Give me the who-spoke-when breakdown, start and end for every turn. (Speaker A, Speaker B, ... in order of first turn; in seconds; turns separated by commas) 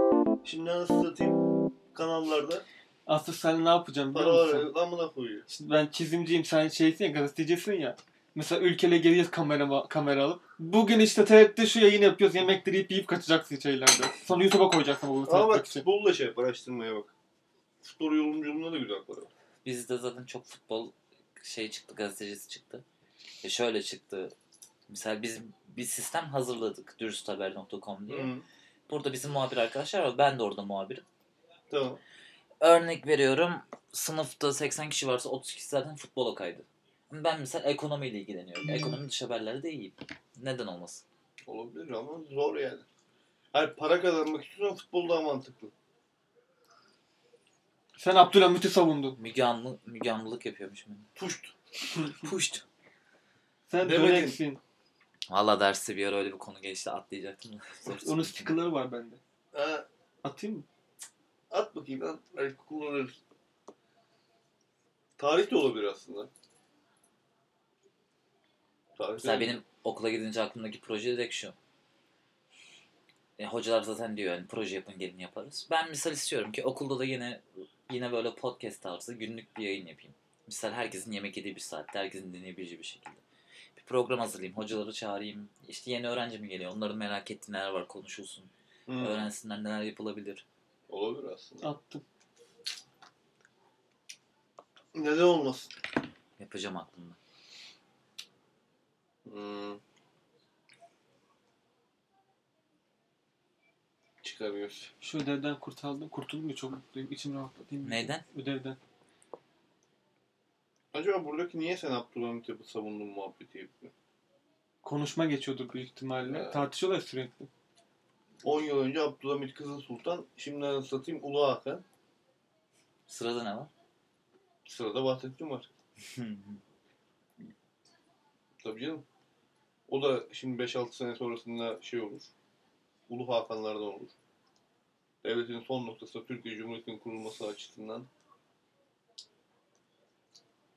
Speaker A: 0.4-2.6, Speaker B: 3.1-4.7, Speaker A: 4.1-5.5, Speaker B: 5.5-15.9, Speaker A: 15.3-17.1, Speaker A: 17.8-19.3, Speaker C: 19.6-22.8, Speaker C: 23.4-24.3, Speaker C: 24.9-28.3, Speaker A: 28.1-28.4, Speaker C: 28.9-31.1, Speaker A: 31.7-32.0, Speaker C: 32.6-41.0, Speaker A: 41.5-42.9, Speaker A: 43.5-45.7, Speaker B: 48.0-49.2, Speaker C: 49.2-51.1, Speaker A: 51.2-51.5, Speaker B: 52.0-52.3, Speaker C: 52.1-52.6, Speaker B: 53.7-54.6, Speaker A: 53.8-54.4, Speaker C: 55.3-58.5, Speaker B: 57.9-59.2, Speaker A: 59.5-59.9, Speaker B: 60.2-60.7, Speaker A: 61.5-63.2, Speaker A: 65.2-66.3, Speaker A: 69.0-69.6, Speaker C: 69.2-71.5, Speaker C: 73.4-83.2, Speaker C: 83.8-90.5, Speaker A: 88.9-89.3, Speaker A: 90.9-91.7, Speaker B: 91.6-92.0, Speaker A: 94.9-95.7, Speaker C: 96.4-97.2, Speaker A: 99.2-99.8, Speaker A: 104.2-104.9, Speaker B: 105.0-108.8, Speaker C: 107.8-108.2, Speaker A: 110.9-113.9, Speaker B: 114.8-117.5, Speaker A: 116.2-116.6, Speaker A: 118.4-121.8, Speaker C: 123.1-123.7, Speaker A: 124.7-125.7, Speaker C: 126.1-126.6, Speaker A: 128.6-129.1, Speaker A: 129.9-132.3, Speaker A: 133.1-134.2, Speaker A: 135.2-138.1